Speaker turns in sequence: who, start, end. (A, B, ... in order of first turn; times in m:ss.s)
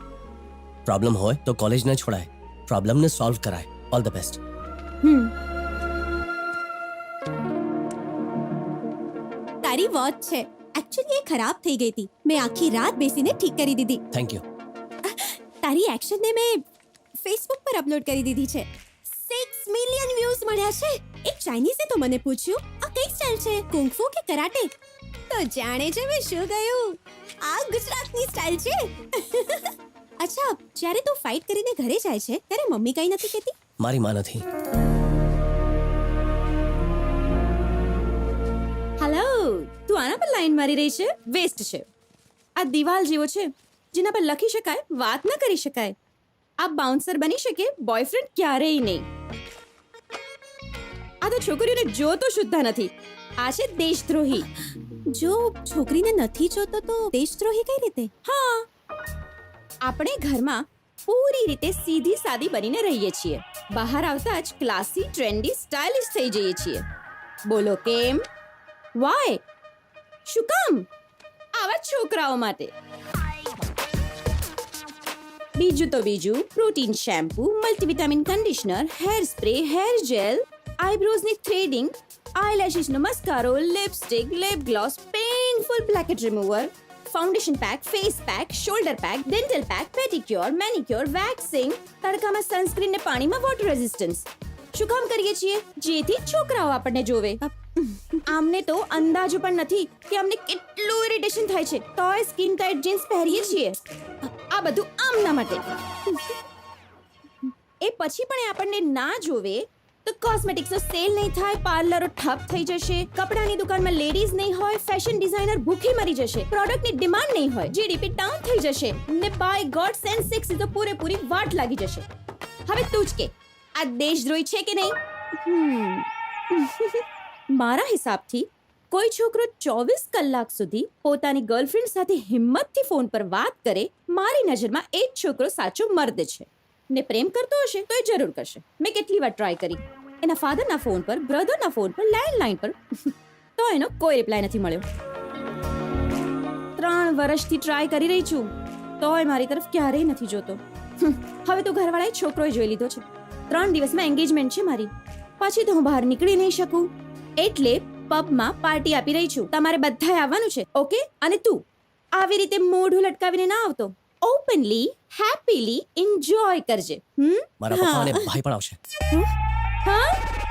0:00.9-0:04.4 A
0:05.0-0:05.3 B
0:09.6-0:14.0 C
0:14.1-0:14.4 A
0:15.1-0:16.6 C
0:17.2-0:24.7 C
0:25.3-0:33.5 C
0:33.8-0:34.4 A
0:39.0-0:41.9 B
0:42.6-0:46.0 B
0:46.6-0:49.0 B
0:51.2-0:54.5 B
0:55.1-0:58.1 C
0:58.2-0:58.7 B
0:59.8-1:06.8 B
1:07.5-1:08.2 B
1:09.0-1:09.4 B
1:10.3-1:10.9 B
1:11.6-1:12.7 B
1:15.6-1:37.4 B
1:37.5-1:38.2 C
1:38.3-1:43.8 B
1:44.5-1:45.6 B
1:47.8-2:02.1 B
2:02.7-2:24.8 B
2:26.8-2:41.6 B
2:42.2-2:47.5 B
2:47.6-2:48.8 A
2:47.7-2:48.3 C
2:49.8-2:50.2 B